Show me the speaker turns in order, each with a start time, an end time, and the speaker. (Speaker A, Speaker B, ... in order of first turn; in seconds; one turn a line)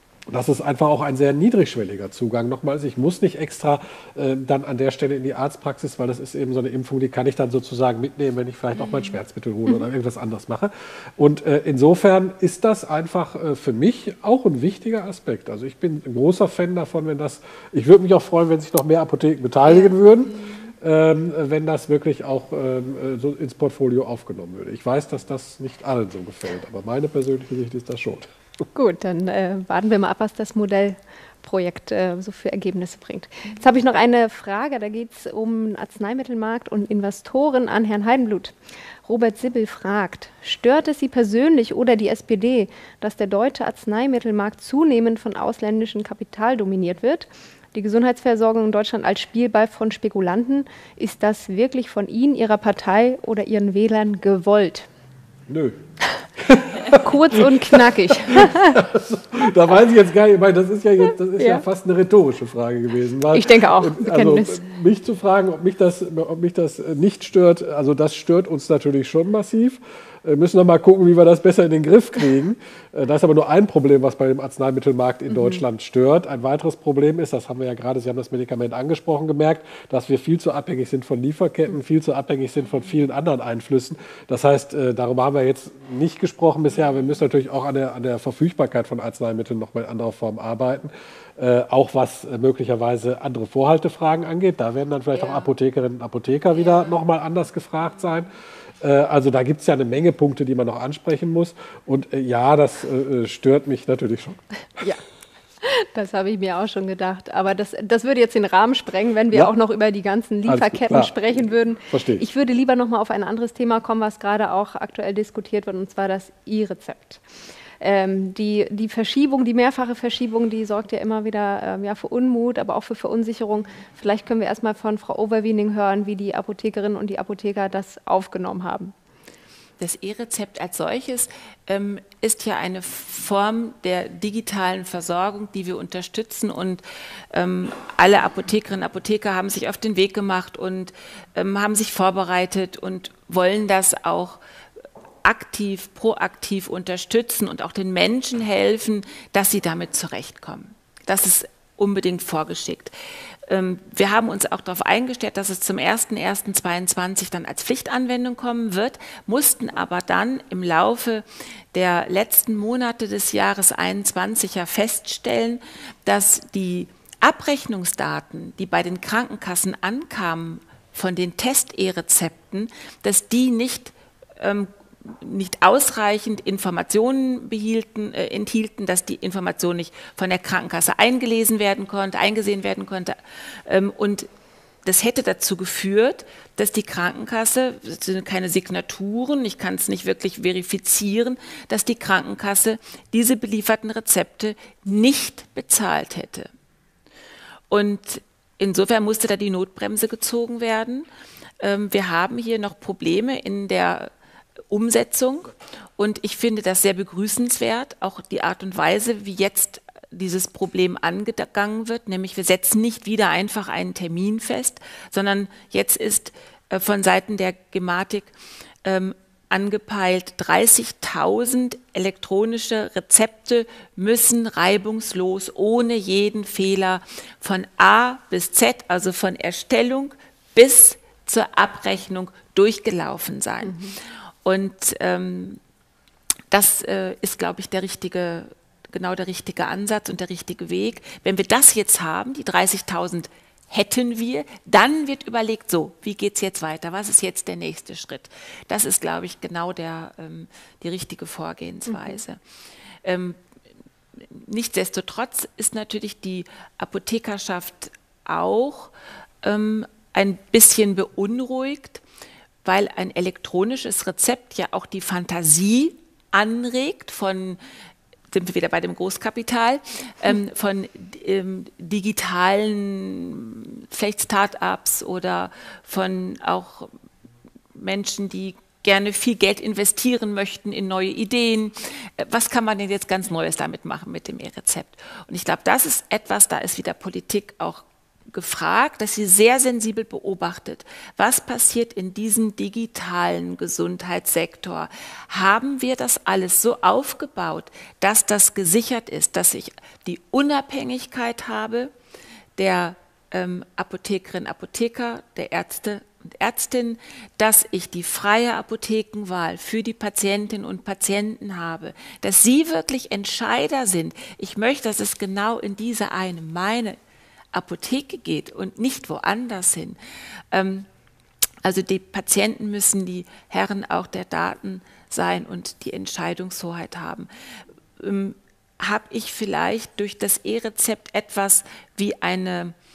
Speaker A: 0.3-28.3
Speaker B: 8.8-9.2
Speaker C: 28.7-38.5
Speaker C: 39.0-54.9
Speaker A: 55.5-55.8
Speaker A: 56.4-104.8
Speaker C: 56.9-58.8
Speaker C: 61.4-61.6
Speaker C: 63.3-64.6
Speaker B: 95.2-95.5
Speaker C: 105.6-117.2
Speaker A: 110.5-111.3
Speaker A: 111.9-112.2
Speaker C: 117.8-128.9
Speaker B: 129.8-144.4
Speaker B: 145.2-152.9
Speaker B: 153.5-184.3
Speaker B: 184.8-196.5
Speaker B: 197.7-201.1
Speaker B: 201.6-204.1
Speaker B: 204.7-218.3
Speaker B: 218.8-233.8
Speaker C: 233.6-233.9
Speaker B: 234.4-235.6
Speaker B: 236.5-252.4
Speaker C: 251.9-252.2
Speaker B: 253.0-253.4
Speaker B: 254.2-258.9
Speaker B: 259.4-262.0
Speaker B: 262.6-267.6
Speaker B: 268.3-276.9
Speaker B: 277.7-301.9
Speaker B: 302.6-317.0
Speaker B: 317.5-320.0
Speaker B: 320.5-320.9
Speaker B: 321.6-327.3
Speaker B: 328.0-332.7